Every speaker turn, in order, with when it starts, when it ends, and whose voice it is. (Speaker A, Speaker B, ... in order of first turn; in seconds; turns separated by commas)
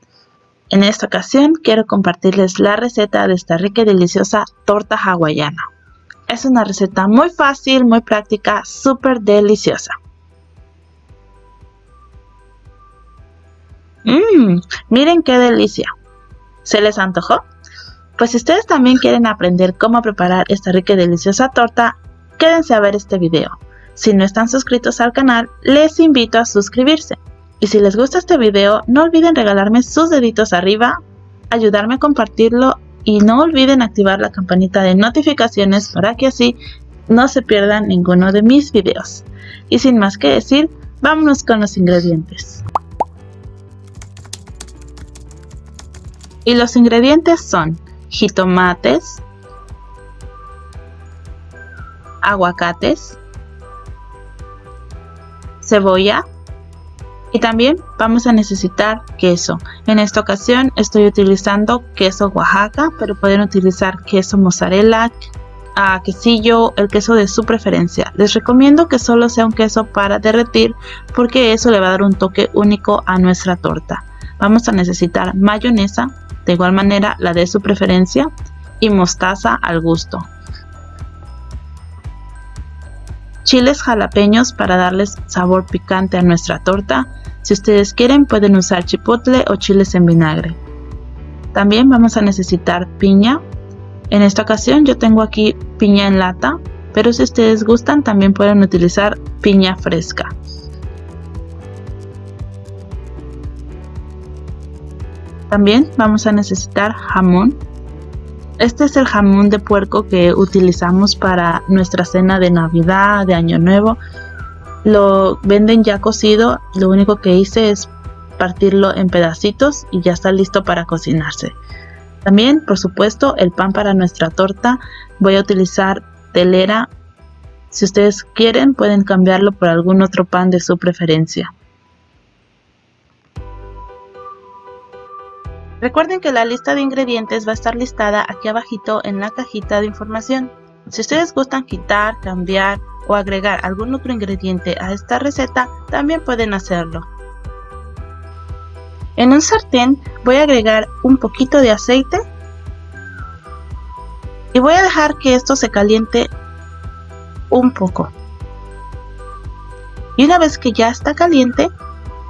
Speaker A: 0.7-5.6, Speaker A: 6.3-9.9, Speaker A: 14.1-15.9, Speaker A: 16.6-17.4, Speaker A: 18.2-31.0, Speaker A: 31.5-36.6, Speaker A: 37.1-42.6, Speaker A: 46.5-49.2, Speaker A: 52.2-53.2, Speaker A: 55.6-56.2, Speaker A: 57.3-65.1, Speaker A: 65.8-80.3, Speaker A: 83.5-90.6, Speaker A: 91.5-93.4, Speaker A: 94.1-100.3, Speaker A: 105.5-107.6, Speaker A: 108.6-114.0, Speaker A: 114.8-121.6, Speaker A: 122.2-126.9, Speaker A: 127.7-131.5, Speaker A: 135.8-147.1, Speaker A: 149.2-152.2, Speaker A: 154.5-156.3, Speaker A: 157.5-158.1, Speaker A: 160.2-161.7